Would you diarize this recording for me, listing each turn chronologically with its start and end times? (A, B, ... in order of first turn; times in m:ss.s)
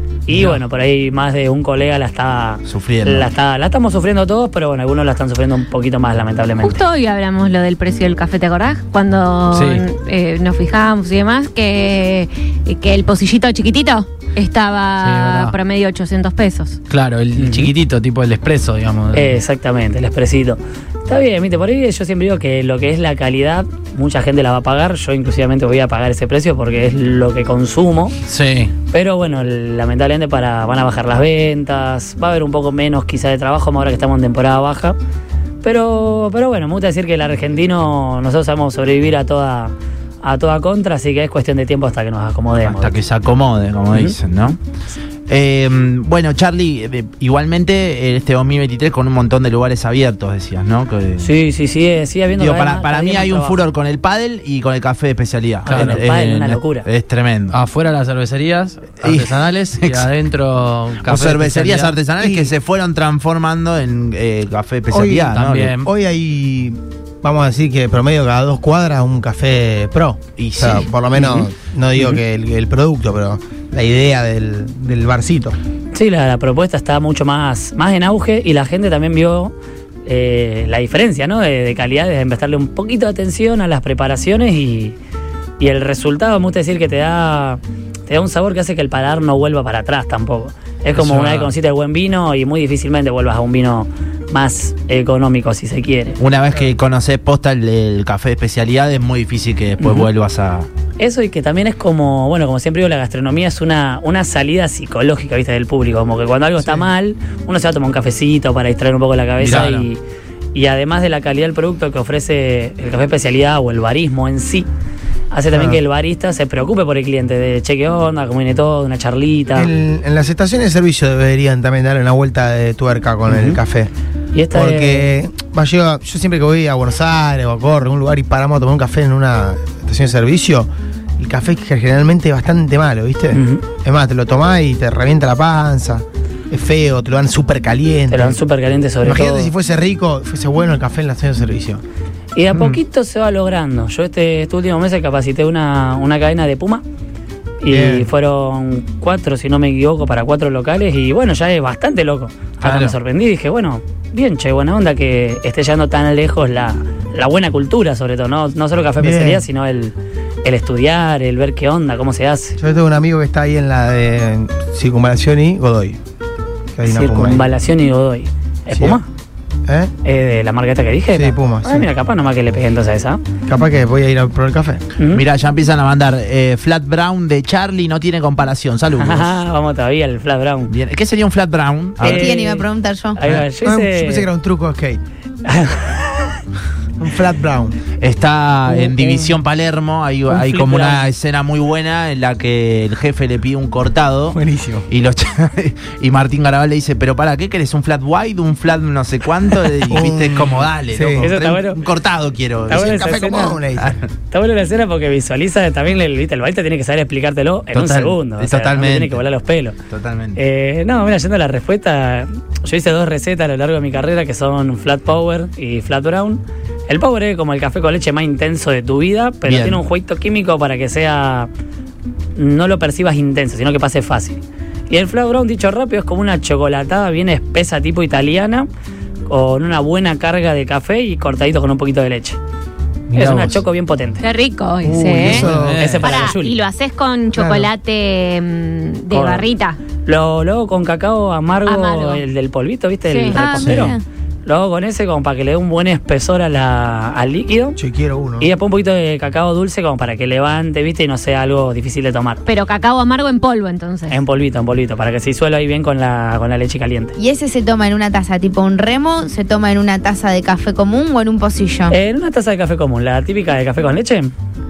0:00.3-0:06.8 A
0:02.7-0:03.3 B
0:06.6-0:16.8 C
0:09.5-0:09.8 D
0:15.0-0:15.6 D
0:16.9-0:19.4 D
0:17.4-0:17.7 A
0:19.1-0:28.2 A
0:28.3-0:28.7 D
0:28.9-0:35.0 A
0:35.6-0:43.0 A
0:42.6-0:44.6 B
0:45.3-0:51.3 B
0:51.2-0:53.6 A
0:52.4-0:57.6 B
0:55.6-0:56.9 A
0:55.7-0:56.0 D
0:57.5-1:02.0 D
0:59.0-1:00.1 B
1:01.0-1:05.8 B
1:02.2-1:02.5 E
1:04.9-1:15.6 E
1:05.3-1:05.9 D
1:10.4-1:11.5 B
1:15.9-1:19.5 A
1:20.1-1:25.0 A
1:25.6-1:36.2 A
1:31.0-1:31.5 D
1:36.2-1:40.7 B
1:39.8-1:40.1 A
1:41.0-1:50.0 A
1:49.4-1:49.8 B
1:49.4-1:49.8 D
1:50.5-1:54.7 A
1:55.3-1:59.7 A
1:55.5-1:55.8 E
1:59.6-2:03.9 E
2:04.3-2:05.1 A
2:04.5-2:18.4 E
2:13.3-2:13.6 A
2:18.1-2:19.5 A
2:19.0-2:21.8 E
2:22.4-2:26.8 A
2:27.6-2:42.6 A
2:27.7-2:28.1 E
2:32.6-2:33.0 B
2:39.0-2:39.4 E
2:42.6-2:46.0 E
2:46.8-2:47.5 E
2:46.9-2:49.1 A
2:48.7-2:49.0 E
2:49.7-2:49.9 E
2:50.0-2:53.2 A
2:51.1-2:51.9 E
2:53.5-2:54.8 E
2:55.0-2:55.2 A
2:55.1-2:59.3 B
2:59.0-3:00.7 A
3:00.7-3:02.3 B
3:02.0-3:03.2 F
3:02.0-3:04.3 A
3:03.4-3:05.0 E
3:05.4-3:06.4 A
3:07.0-3:07.8 E
3:08.0-3:23.0 B
3:08.8-3:09.3 E
3:10.3-3:11.1 A
3:14.3-3:14.9 E
3:19.9-3:21.3 E
3:21.2-3:21.8 A
3:22.7-3:23.6 A
3:22.7-3:24.0 E
3:23.8-3:24.0 B
3:24.3-3:29.8 A
3:27.7-3:29.2 B
3:29.9-3:30.4 B
3:30.4-3:41.5 A
3:39.5-3:39.8 B
3:42.4-3:48.7 A
3:49.3-3:52.4 A
3:53.1-3:53.6 D
3:53.1-3:54.2 A
3:54.2-3:55.5 C
3:54.8-3:56.0 E
3:55.2-3:56.1 D
3:55.6-3:56.6 A
3:56.0-3:59.8 C
3:57.4-3:57.7 E
3:59.1-3:59.5 A
4:00.0-4:07.8 A
4:01.7-4:02.2 C
4:03.1-4:03.5 C
4:03.3-4:04.0 F
4:07.8-4:08.5 E
4:08.4-4:12.4 A
4:12.5-4:14.2 C
4:14.1-4:17.2 A
4:17.2-4:21.9 F
4:21.9-4:24.3 A